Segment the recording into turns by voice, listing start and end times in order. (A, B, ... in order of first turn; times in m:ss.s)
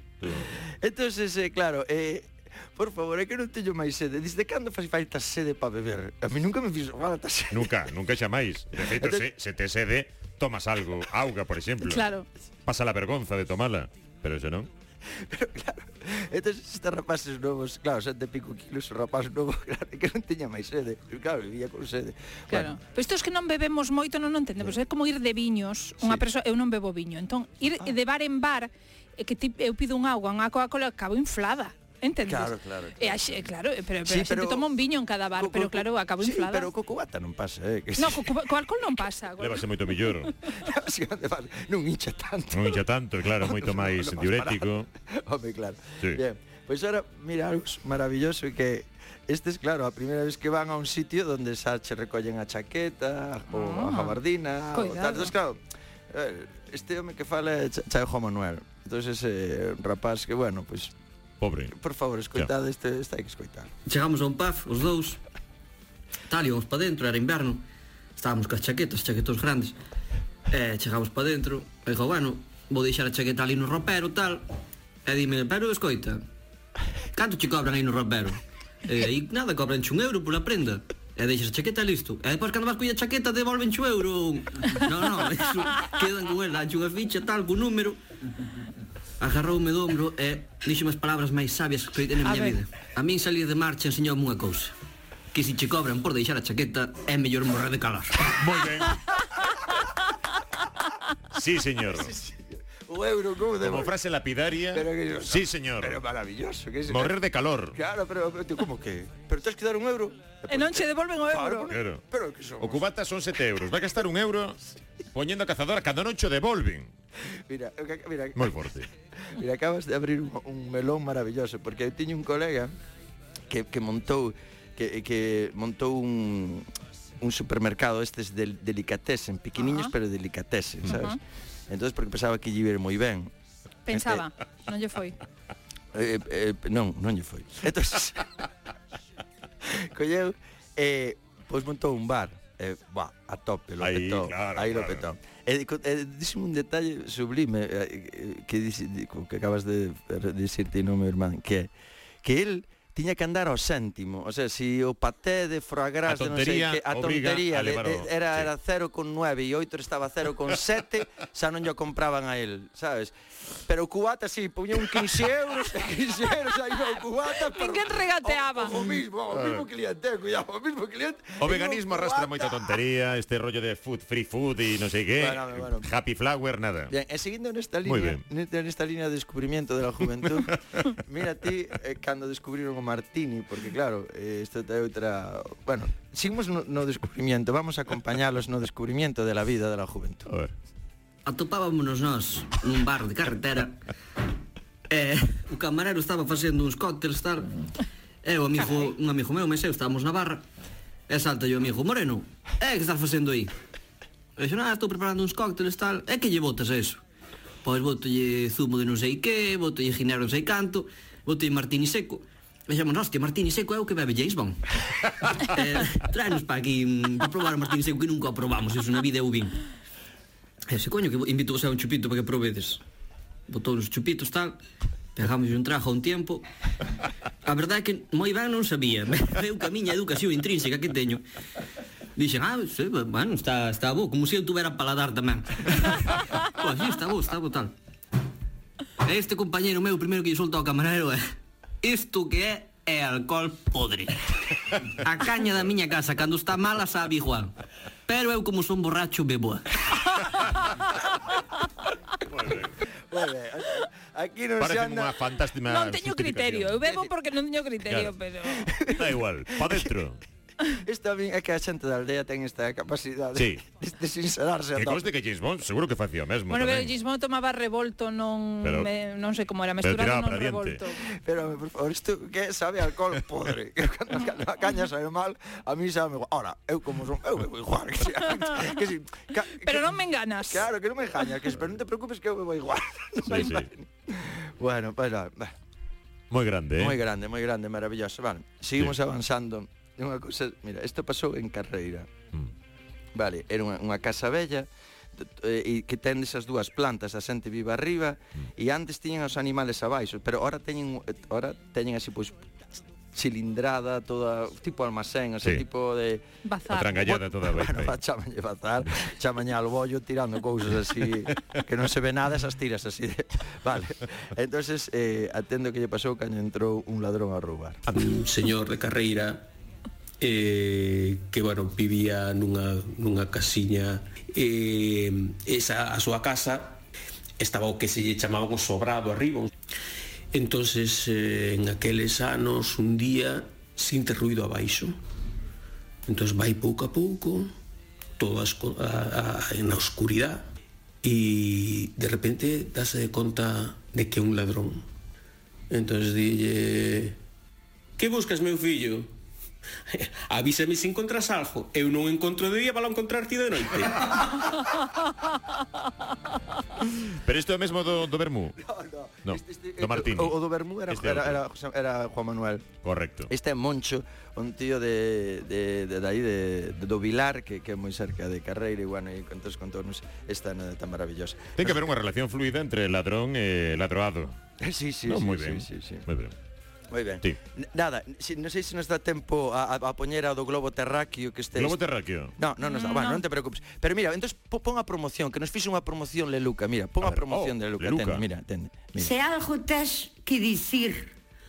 0:00.2-0:00.5 A
0:00.6-0:07.7 B
0:07.5-0:12.1 A
0:08.9-0:09.3 B
0:11.8-0:12.2 C
0:12.6-0:14.7 A
0:15.2-0:22.8 B
0:22.5-0:36.7 C
0:26.0-0:26.3 B
0:32.2-0:33.4 B
0:34.0-0:38.5 B
0:38.0-0:40.3 C
0:39.4-0:40.3 A
0:40.4-0:55.6 B
0:42.5-0:44.9 A
0:53.5-0:54.2 C
0:54.7-0:55.3 C
0:56.1-1:00.9 B
1:01.4-1:01.7 A
1:01.7-1:03.7 B
1:03.8-1:05.2 D
1:06.3-1:07.6 D
1:08.2-1:09.7 D
1:10.5-1:14.4 D
1:15.0-1:16.2 D
1:17.1-1:28.0 D
1:29.2-1:34.7 D
1:32.2-1:32.5 C
1:35.3-1:38.3 D
1:38.4-1:39.2 A
1:41.3-1:42.1 A
1:41.8-1:43.9 B
1:43.6-1:46.0 A
1:44.7-1:47.2 B
1:46.9-1:47.8 A
1:47.7-1:52.8 B
1:50.5-1:51.7 C
1:51.7-1:52.0 A
1:52.6-1:54.6 A
1:55.1-1:56.9 A
1:57.4-1:58.6 B
1:58.4-1:58.9 A
1:59.2-2:02.7 B
2:03.5-2:06.6 B
2:07.2-2:11.2 B
2:09.6-2:09.9 C
2:10.8-2:11.2 C
2:11.7-2:13.3 B
2:13.9-2:15.2 C
2:13.9-2:14.3 B
2:15.9-2:18.5 B
2:19.6-2:31.7 B
2:23.8-2:25.0 A
2:32.2-2:43.1 B
2:36.1-2:38.5 A
2:43.6-2:52.7 B
2:47.3-2:48.9 C
2:51.4-2:56.9 A
2:55.2-2:55.9 B
2:56.9-3:10.3 B
2:57.8-2:58.2 A
3:10.3-3:10.5 A
3:11.2-3:13.8 D
3:14.9-3:17.5 D
3:18.2-3:20.4 D
3:21.1-3:23.5 D
3:24.4-3:27.0 D
3:27.6-3:39.6 D
3:40.7-3:42.8 D
3:43.5-3:44.6 D
3:45.2-3:46.4 D
3:47.4-3:51.2 D
3:52.2-3:57.7 D
3:59.0-4:01.2 D
4:01.8-4:07.5 D
4:08.1-4:09.7 D
4:10.1-4:10.7 C
4:12.2-4:12.8 A
4:13.1-4:15.1 B
4:14.6-4:16.8 A
4:15.6-4:18.7 C
4:16.8-4:17.1 B
4:17.9-4:18.1 A
4:18.4-4:19.9 B
4:18.9-4:20.2 A
4:20.7-4:25.0 B
4:23.4-4:23.6 A
4:24.8-4:27.0 A
4:26.5-4:31.0 C
4:28.6-4:28.9 A
4:29.8-4:30.8 A
4:30.9-4:45.5 B
4:38.3-4:38.8 C
4:39.5-4:40.7 C
4:43.3-4:43.7 A
4:46.3-4:47.0 A
4:46.8-4:52.1 B
4:53.1-5:06.2 B
5:06.4-5:07.0 C
5:06.7-5:08.0 A
5:06.9-5:17.8 B
5:17.9-5:19.5 E
5:20.2-5:26.8 E
5:27.4-5:29.5 E
5:30.3-5:34.9 E
5:36.1-5:37.5 E
5:38.2-5:40.4 E
5:41.0-5:44.8 E
5:45.7-5:47.2 E
5:48.0-5:49.1 E
5:49.9-5:54.8 E
5:57.2-5:58.6 A
5:58.6-6:02.6 B
5:59.2-6:00.4 A
6:00.9-6:01.4 A
6:02.8-6:03.3 A
6:03.3-6:11.8 B
6:11.6-6:14.4 A
6:14.6-6:16.0 B
6:15.0-6:16.3 A
6:16.9-6:21.8 B
6:21.5-6:22.4 A
6:22.4-6:29.2 B
6:22.6-6:23.2 C
6:27.0-6:28.2 A
6:28.9-6:31.1 F